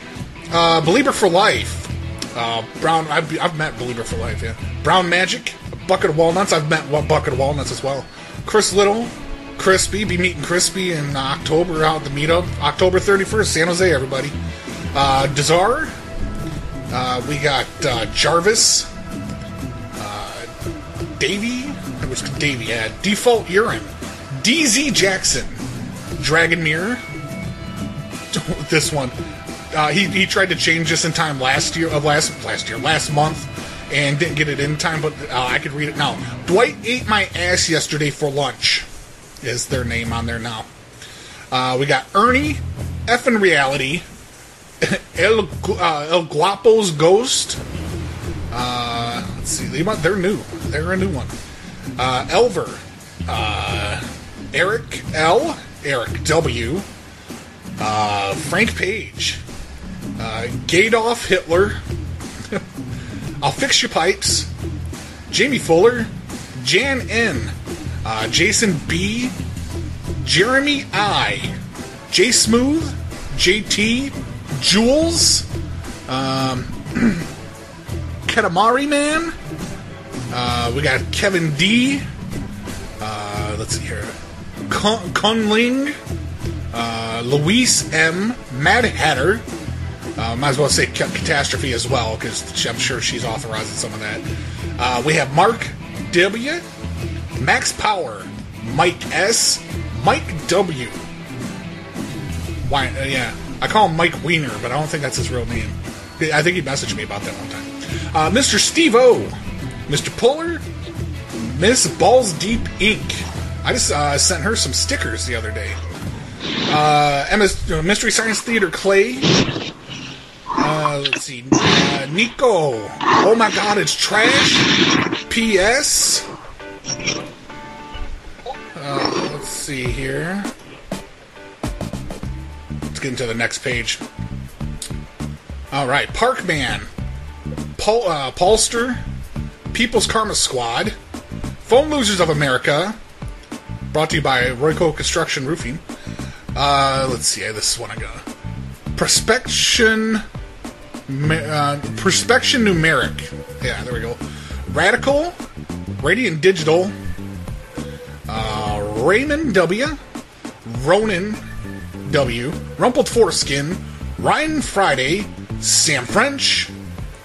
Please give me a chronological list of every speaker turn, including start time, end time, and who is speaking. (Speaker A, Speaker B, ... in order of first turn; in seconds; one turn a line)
Speaker A: 0.5-14.4
Speaker A: 14.9-15.9
Speaker A: 16.9-18.9
Speaker A: 20.0-20.5
Speaker A: 21.2-25.6
Speaker A: 26.2-27.0
Speaker A: 28.3-29.2
Speaker A: 29.7-38.9
Speaker A: 39.4-40.7
Speaker A: 41.5-44.1
Speaker A: 44.8-47.6
Speaker A: 48.5-51.3
Speaker A: 52.0-56.9
Speaker A: 57.8-59.4
Speaker A: 60.2-61.8
Speaker A: 63.4-64.5
Speaker A: 65.3-67.5
Speaker A: 68.0-69.3
Speaker A: 70.2-71.5
Speaker A: 72.1-75.5
Speaker A: 76.1-77.3
Speaker A: 78.3-79.3
Speaker A: 80.3-82.0
Speaker A: 83.0-84.2
Speaker A: 84.7-86.0
Speaker A: 86.7-89.4
Speaker A: 90.2-94.2
Speaker A: 94.8-96.6
Speaker A: 97.4-101.0
Speaker A: 102.6-109.3
Speaker A: 109.9-110.6
Speaker A: 111.3-115.8
Speaker A: 116.7-119.3
Speaker A: 120.6-124.7
Speaker A: 125.3-126.3
Speaker A: 128.8-130.5
Speaker A: 132.9-134.0
Speaker A: 135.7-136.9
Speaker A: 137.8-139.0
Speaker A: 139.7-141.0
Speaker A: 141.6-143.0
Speaker A: 143.9-145.8
Speaker A: 146.6-148.2
Speaker A: 148.9-150.2
Speaker A: 151.1-155.4
Speaker A: 156.0-156.9
Speaker A: 158.3-160.0
Speaker A: 160.6-161.4
Speaker A: 162.1-166.7